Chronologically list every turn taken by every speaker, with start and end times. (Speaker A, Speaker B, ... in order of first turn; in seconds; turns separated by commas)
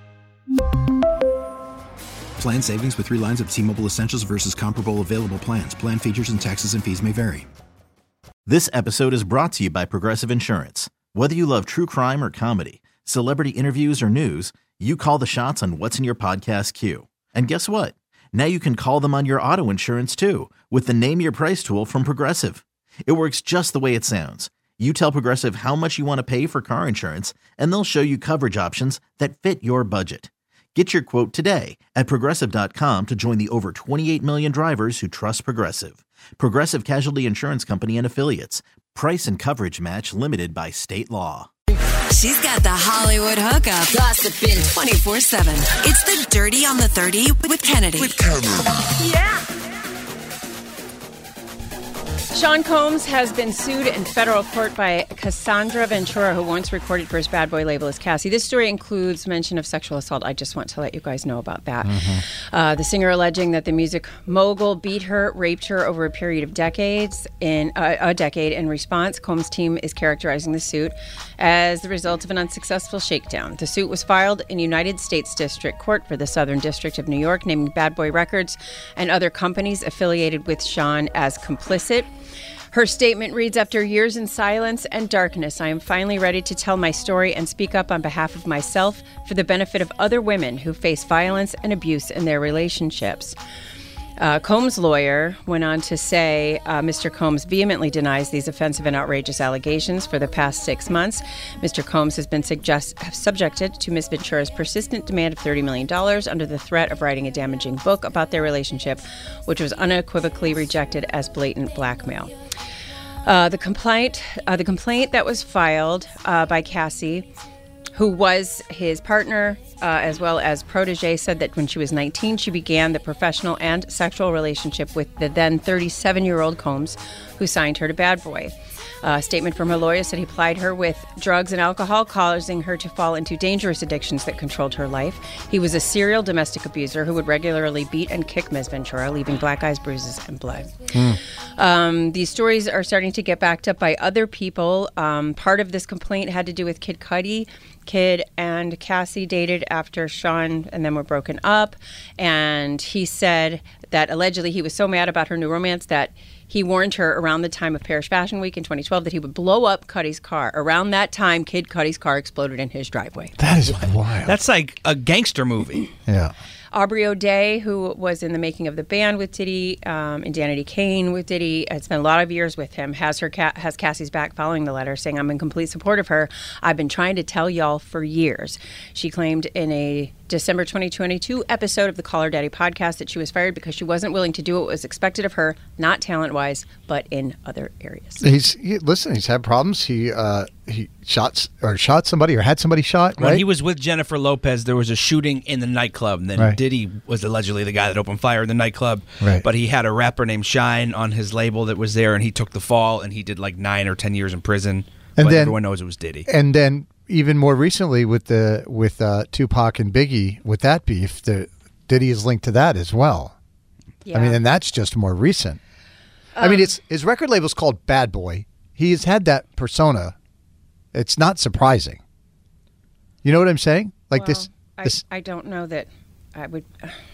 Speaker A: 2.4-7.5, Speaker B: 8.5-41.5, Speaker C: 42.1-48.3, Speaker D: 52.3-82.1, Speaker E: 61.8-62.2, Speaker D: 82.7-93.4, Speaker D: 94.2-112.3, Speaker D: 113.2-117.3, Speaker D: 118.0-140.9, Speaker E: 140.9-141.2, Speaker D: 141.6-163.4, Speaker E: 163.4-164.4, Speaker F: 163.7-165.9, Speaker E: 166.1-166.3, Speaker D: 166.7-188.2, Speaker E: 188.2-193.4, Speaker F: 193.2-206.3, Speaker E: 199.2-199.5, Speaker E: 205.2-205.6, Speaker E: 206.3-213.4, Speaker D: 214.1-214.4, Speaker E: 214.1-215.6, Speaker E: 216.4-220.2, Speaker D: 216.4-216.7, Speaker E: 220.9-222.0, Speaker E: 223.2-225.0, Speaker D: 224.1-227.0